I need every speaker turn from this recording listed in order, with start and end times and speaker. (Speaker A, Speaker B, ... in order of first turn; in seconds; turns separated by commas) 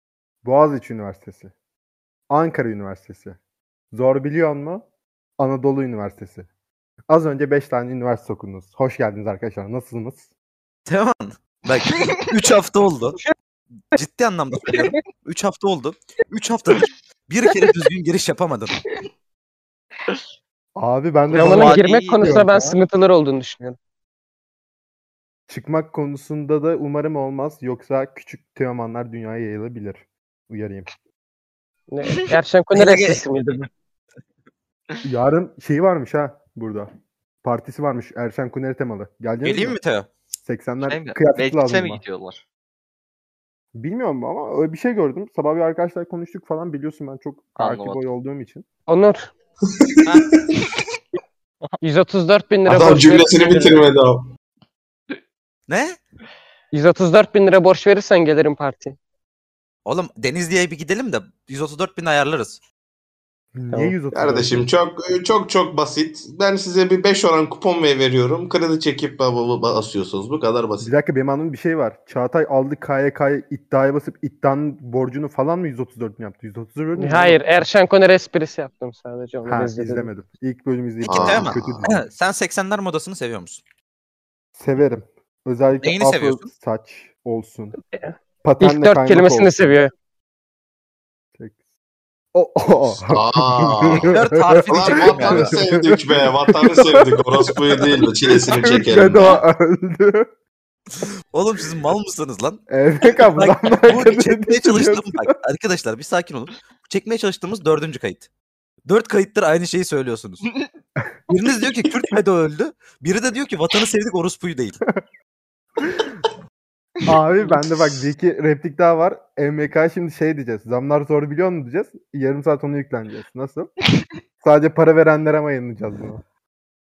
Speaker A: 0.4-1.5, Speaker A: 2.3-3.4, Speaker A: 3.9-4.8, Speaker A: 5.4-6.5, Speaker A: 7.1-10.2, Speaker B: 10.9-13.2, Speaker B: 13.9-18.8, Speaker A: 20.8-22.6, Speaker C: 21.3-22.7, Speaker D: 21.3-23.8, Speaker A: 25.5-30.9, Speaker D: 31.9-33.7, Speaker B: 32.7-33.2, Speaker A: 35.0-36.9, Speaker A: 37.4-39.8, Speaker B: 39.4-40.1, Speaker A: 40.4-42.0, Speaker C: 40.8-42.4, Speaker A: 43.7-48.6, Speaker C: 47.6-48.0, Speaker D: 48.9-49.3, Speaker E: 49.8-50.5, Speaker D: 51.8-53.9, Speaker E: 52.6-54.3, Speaker B: 55.7-56.0, Speaker D: 56.7-59.0, Speaker B: 59.9-62.6, Speaker A: 63.5-64.7, Speaker D: 63.7-64.0, Speaker E: 64.1-70.9, Speaker A: 70.8-77.4, Speaker D: 77.0-80.1, Speaker A: 79.5-82.0, Speaker E: 81.0-81.8, Speaker B: 81.1-83.6, Speaker A: 84.5-87.8, Speaker B: 85.8-86.5, Speaker D: 88.0-89.9, Speaker A: 88.4-89.8, Speaker A: 92.3-100.3, Speaker E: 93.1-94.1, Speaker B: 94.1-95.6, Speaker E: 94.7-99.4, Speaker B: 101.0-108.3, Speaker A: 102.7-105.3, Speaker B: 108.8-110.4, Speaker B: 111.3-114.8, Speaker A: 115.8-116.1, Speaker A: 117.0-123.7, Speaker A: 124.4-126.2